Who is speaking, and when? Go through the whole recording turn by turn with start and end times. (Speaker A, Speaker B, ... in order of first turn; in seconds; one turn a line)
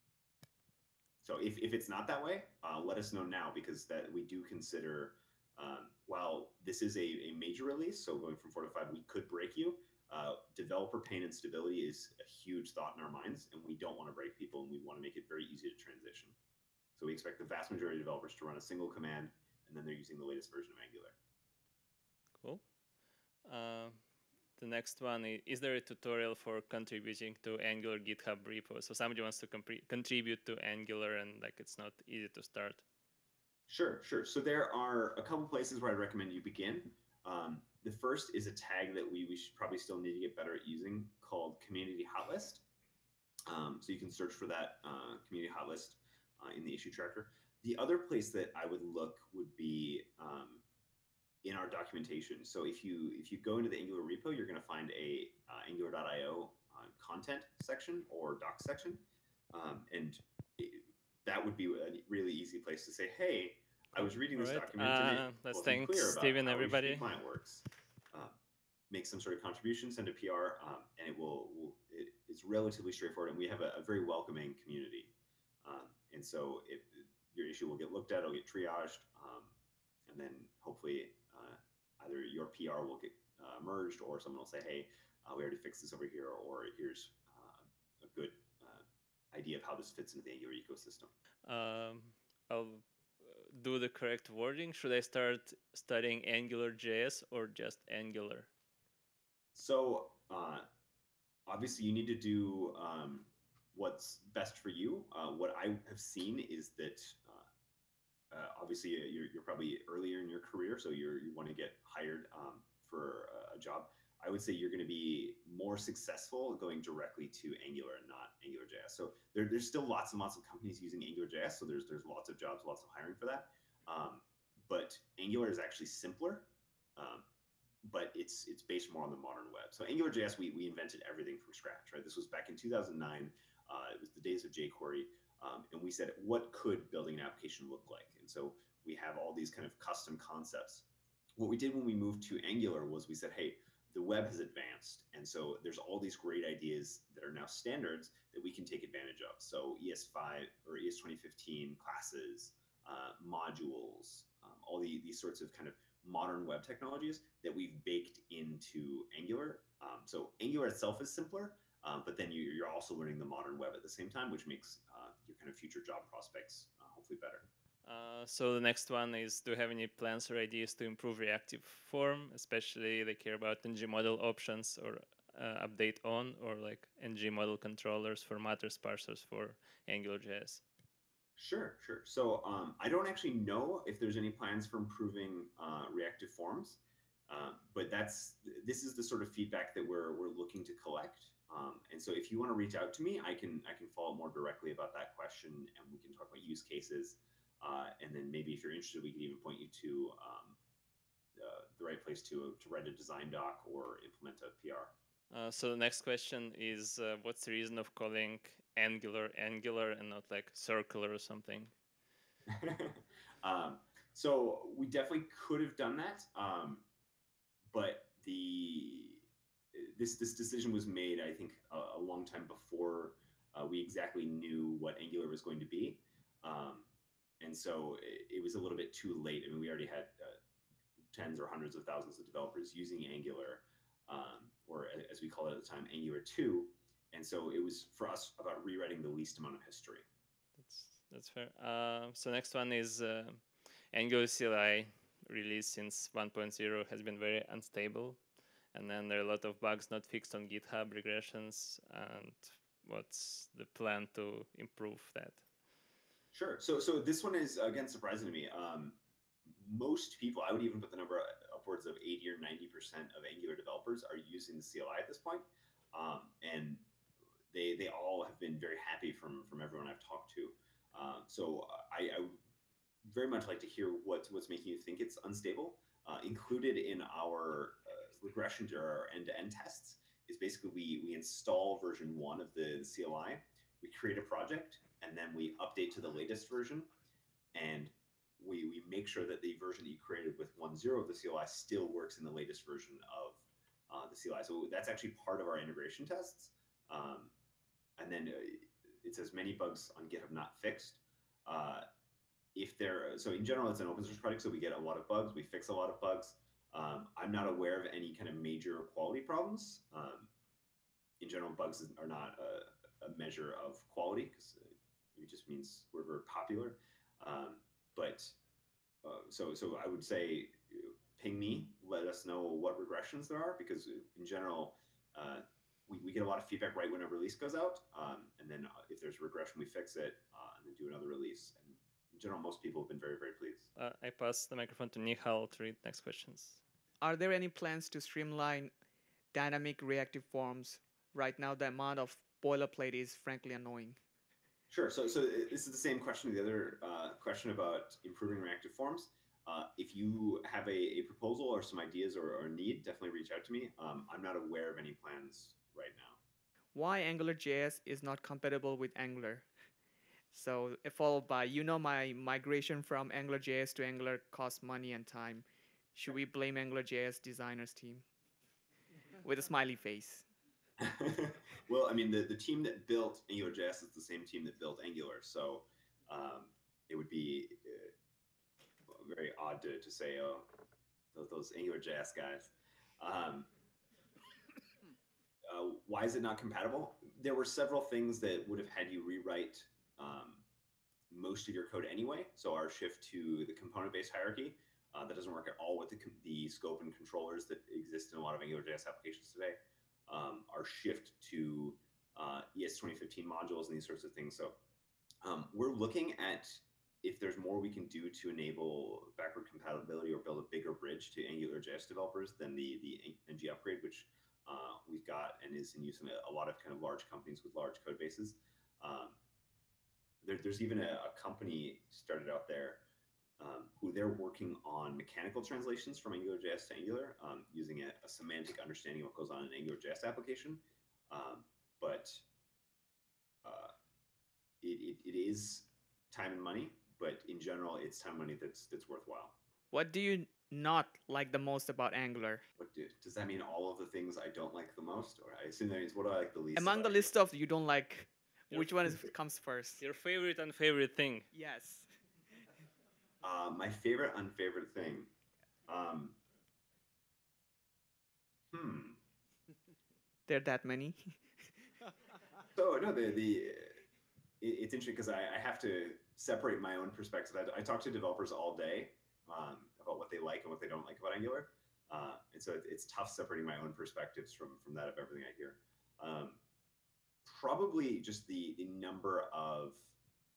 Speaker A: 1.2-16.4
Speaker A: 17.0-21.1
Speaker B: 23.4-24.0
Speaker B: 24.6-32.8
Speaker A: 33.7-42.6
Speaker A: 43.5-50.6
Speaker A: 51.4-68.3
Speaker B: 64.0-67.0
Speaker A: 68.9-79.5
Speaker A: 80.1-91.1
Speaker B: 91.4-98.5
Speaker A: 99.5-100.7
Speaker A: 101.5-107.5
Speaker A: 108.3-127.2
Speaker A: 127.8-140.8
Speaker A: 141.4-167.5
Speaker B: 167.8-180.6
Speaker A: 181.4-200.6
Speaker A: 201.4-204.9
Speaker B: 205.3-211.7
Speaker A: 212.5-216.8
Speaker A: 217.7-226.9
Speaker A: 227.4-230.4
Speaker A: 231.1-240.0
Speaker B: 240.6-248.2
Speaker B: 248.7-255.4
Speaker A: 256.3-266.8
Speaker A: 267.5-272.4
Speaker A: 273.0-286.9
Speaker A: 287.5-297.3
Speaker A: 298.0-301.9
Speaker A: 302.5-310.3
Speaker A: 311.2-318.4
Speaker A: 319.0-333.7
Speaker B: 333.8-336.6
Speaker C: 337.0-338.7
Speaker C: 339.3-344.0
Speaker A: 344.7-356.2
Speaker C: 356.7-359.5
Speaker C: 360.3-368.0
Speaker C: 369.2-370.2
Speaker A: 370.8-377.9
Speaker A: 378.9-380.5
Speaker A: 381.1-383.5
Speaker A: 385.4-390.4
Speaker A: 391.1-399.6
Speaker A: 400.1-404.6
Speaker A: 405.2-419.2
Speaker A: 420.2-422.8
Speaker A: 423.4-432.2
Speaker A: 433.4-433.7
Speaker A: 434.6-439.4
Speaker C: 439.7-442.4
Speaker A: 442.6-447.1
Speaker C: 446.6-449.8
Speaker B: 448.5-448.9
Speaker B: 449.8-451.3
Speaker C: 451.3-451.9
Speaker A: 453.2-455.1
Speaker A: 455.7-456.2
Speaker A: 458.5-459.0
Speaker C: 460.3-461.2
Speaker A: 462.5-463.8
Speaker A: 464.4-476.4
Speaker A: 477.2-479.9